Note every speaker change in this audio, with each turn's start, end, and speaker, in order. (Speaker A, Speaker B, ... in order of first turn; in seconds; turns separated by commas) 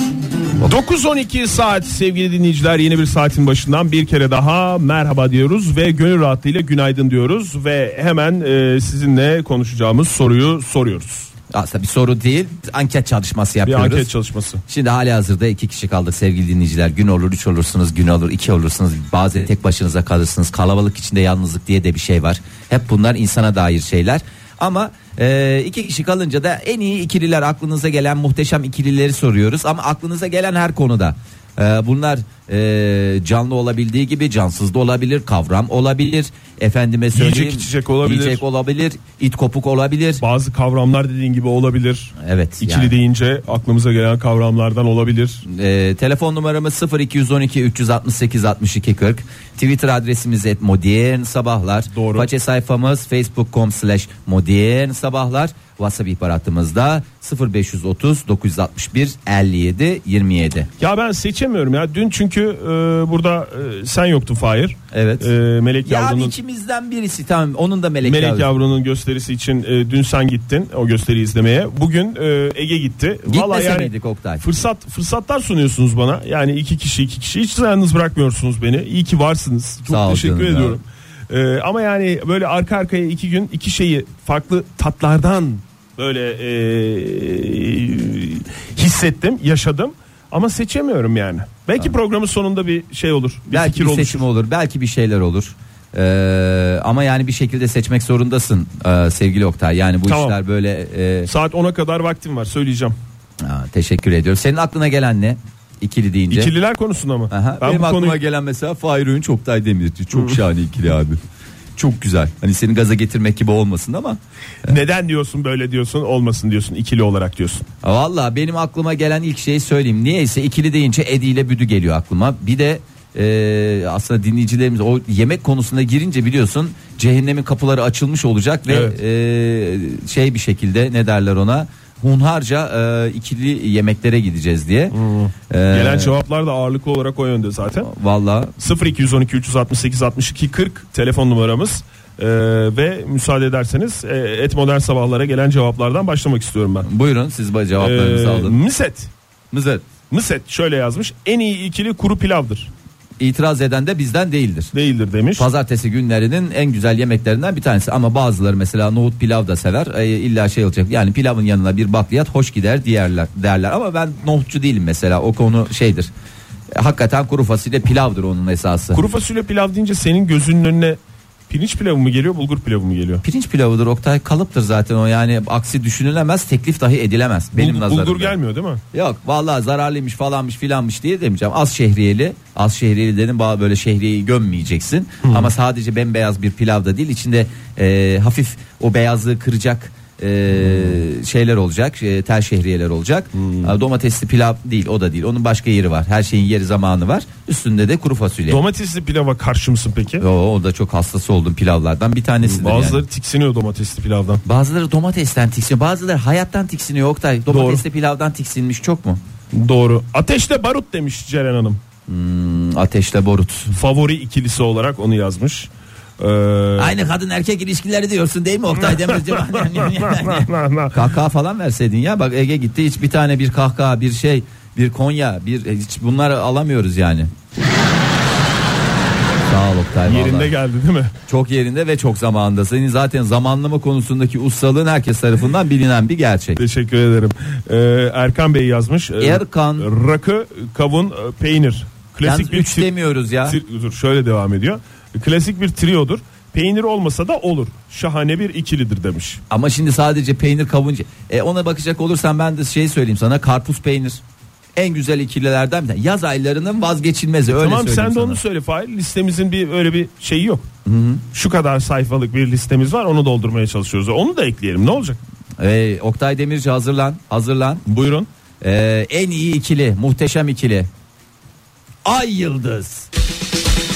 Speaker A: 0.6-11.3, Speaker B: 11.5-14.1, Speaker A: 13.7-14.6, Speaker B: 14.7-40.2, Speaker A: 37.1-38.4, Speaker A: 40.2-45.4, Speaker B: 42.2-42.9, Speaker B: 45.5-60.7, Speaker A: 51.9-52.3, Speaker A: 60.8-66.3, Speaker B: 64.9-65.3, Speaker B: 65.8-68.5, Speaker A: 68.0-94.2, Speaker B: 73.3-74.5, Speaker B: 79.9-80.8, Speaker B: 93.5-101.3, Speaker A: 100.1-100.4, Speaker A: 101.2-103.0, Speaker B: 103.4-106.5, Speaker A: 106.3-108.2, Speaker B: 107.3-111.2, Speaker A: 110.1-110.4, Speaker B: 111.8-114.8, Speaker A: 114.7-117.7, Speaker B: 117.8-134.9, Speaker A: 128.7-129.0, Speaker A: 134.9-137.9, Speaker B: 135.5-136.1, Speaker B: 137.8-138.5, Speaker A: 138.6-146.9, Speaker B: 146.8-148.6, Speaker A: 147.8-149.1, Speaker B: 149.5-149.9, Speaker A: 150.1-152.7, Speaker B: 153.2-154.7, Speaker A: 154.7-155.5, Speaker B: 155.4-166.1, Speaker B: 166.7-169.0, Speaker A: 168.9-173.2, Speaker B: 173.2-178.4, Speaker A: 177.6-178.8, Speaker B: 178.9-198.6, Speaker A: 185.2-185.5, Speaker A: 190.6-191.0, Speaker A: 193.4-193.7, Speaker A: 198.5-200.2, Speaker B: 200.2-203.0, Speaker A: 202.4-204.4, Speaker B: 204.4-209.2, Speaker A: 207.5-207.8, Speaker A: 209.5-211.8, Speaker B: 212.1-213.7, Speaker A: 213.7-216.9, Speaker B: 216.8-227.3, Speaker A: 218.7-221.0, Speaker B: 229.5-230.5, Speaker A: 230.0-231.1, Speaker B: 231.3-236.6, Speaker A: 236.6-242.9, Speaker B: 239.2-239.9, Speaker B: 242.2-243.6, Speaker A: 243.4-249.4, Speaker B: 249.5-254.2, Speaker B: 254.8-258.4, Speaker A: 257.5-260.7, Speaker B: 260.9-261.2, Speaker A: 261.3-265.2, Speaker B: 265.6-267.8, Speaker A: 267.9-268.3, Speaker B: 268.6-270.9, Speaker B: 272.1-273.1